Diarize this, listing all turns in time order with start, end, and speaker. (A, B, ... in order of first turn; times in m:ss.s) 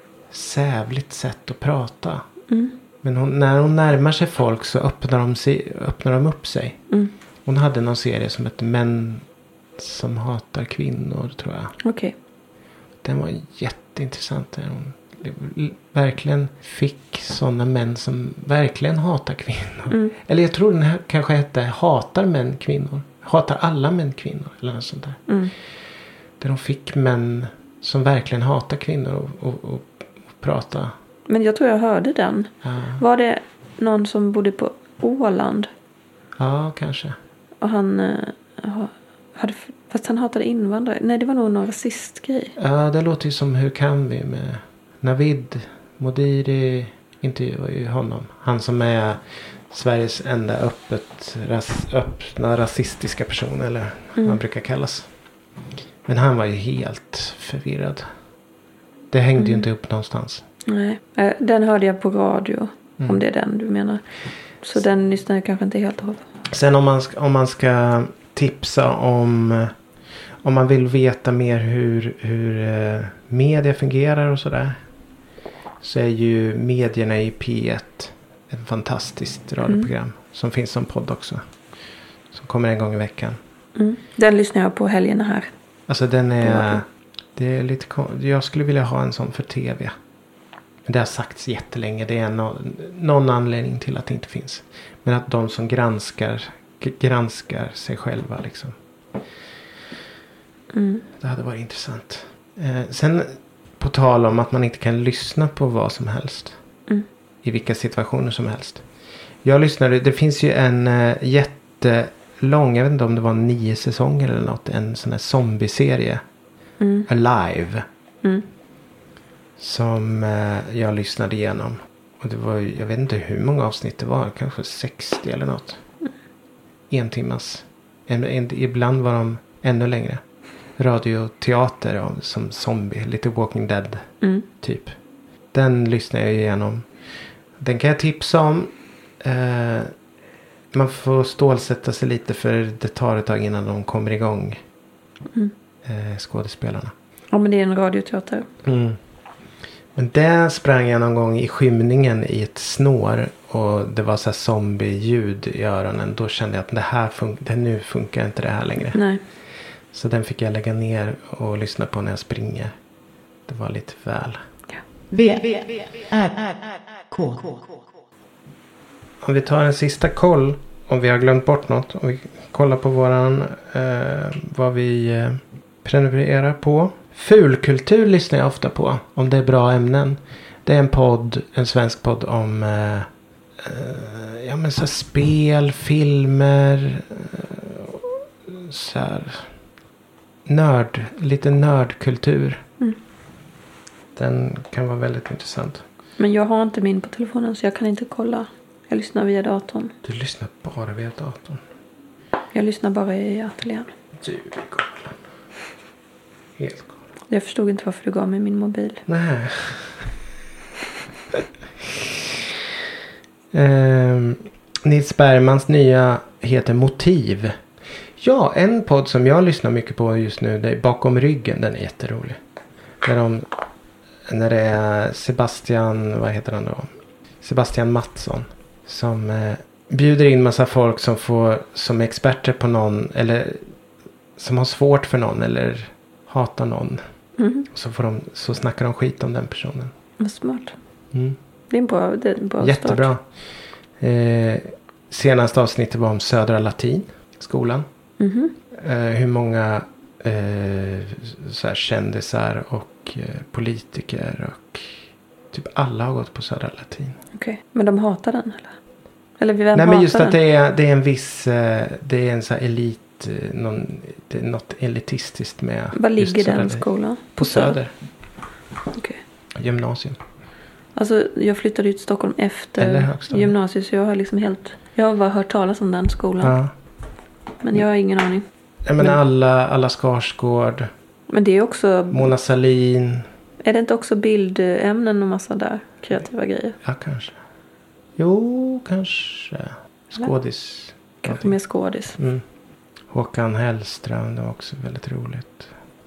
0:00.3-0:02.2 A
0:02.5-0:02.8 B
0:03.0-0:06.9 A
0:07.4-0:11.8 A
0:11.8-0:12.1 B
0:13.0-0:25.2 A
0:25.3-0:25.5 B
0:26.4-0:30.9 A
0:31.3-0:35.7 B
0:32.6-0:33.0 A
0:36.4-0:37.2 A
0:37.6-0:42.6 B
0:42.6-0:55.1 A
0:56.1-0:58.1 A
0:59.1-1:00.4 A
0:59.4-0:59.6 B
1:00.7-1:04.0 B
1:04.6-1:06.2 B
1:06.5-1:09.7 A
1:10.4-1:14.8 A
1:15.8-1:21.4 A
1:22.3-1:23.4 A
1:23.8-1:25.5 B
1:25.9-1:30.0 A
1:26.4-1:26.8 B
1:30.9-1:38.8 A
1:40.7-1:41.0 B
1:41.2-1:46.6 A
1:47.4-1:48.8 A
1:49.4-1:56.2 A
1:56.8-1:57.1 B
1:57.1-1:57.8 A
1:59.6-2:05.8 A
2:06.9-2:10.2 A
2:10.8-2:15.0 A
2:15.5-2:16.9 A
2:17.6-2:19.9 A
2:20.7-2:24.6 A
2:25.8-2:26.9 A
2:27.3-2:28.5 B
2:28.6-2:29.0 A
2:30.0-2:39.0 A
2:38.9-2:39.2 B
2:39.9-2:42.7 A
2:43.5-2:44.4 A
2:45.1-2:47.8 C
2:49.2-3:03.1 A
3:03.6-3:09.5 A
3:10.5-3:12.6 A
3:14.2-3:15.8 A
3:16.2-3:20.0 B
3:20.0-3:21.6 A
3:22.5-3:23.9 B
3:24.2-3:25.2 A
3:26.6-3:26.9 A
3:27.3-3:29.0 B
3:29.1-3:30.1 A
3:31.9-3:32.3 A
3:33.5-3:37.6 A
3:38.2-3:42.4 A
3:43.0-3:43.5 A
3:44.3-3:46.9 A
3:47.4-3:53.6 A
3:54.4-3:57.0 A
3:57.4-3:57.7 B
3:57.7-3:59.9 A
4:00.2-4:00.8 B
4:01.1-4:01.4 A
4:01.7-4:03.1 B
4:02.6-4:03.3 A
4:04.0-4:07.9 A
4:08.2-4:08.6 B
4:08.7-4:17.2 A
4:17.4-4:18.8 B
4:19.4-4:20.4 B
4:19.7-4:27.9 A
4:26.0-4:27.8 B
4:28.9-4:29.2 B
4:29.6-4:30.2 A
4:31.0-4:36.6 B
4:32.8-4:33.6 A
4:36.4-4:36.7 A
4:37.6-4:38.4 B
4:38.9-4:40.9 A
4:41.3-4:42.3 B
4:42.1-4:43.3 A
4:43.6-4:46.8 B
4:46.8-4:47.4 A
4:48.2-4:51.5 A
4:51.2-4:52.2 B
4:52.2-4:52.4 A
4:53.1-4:55.7 A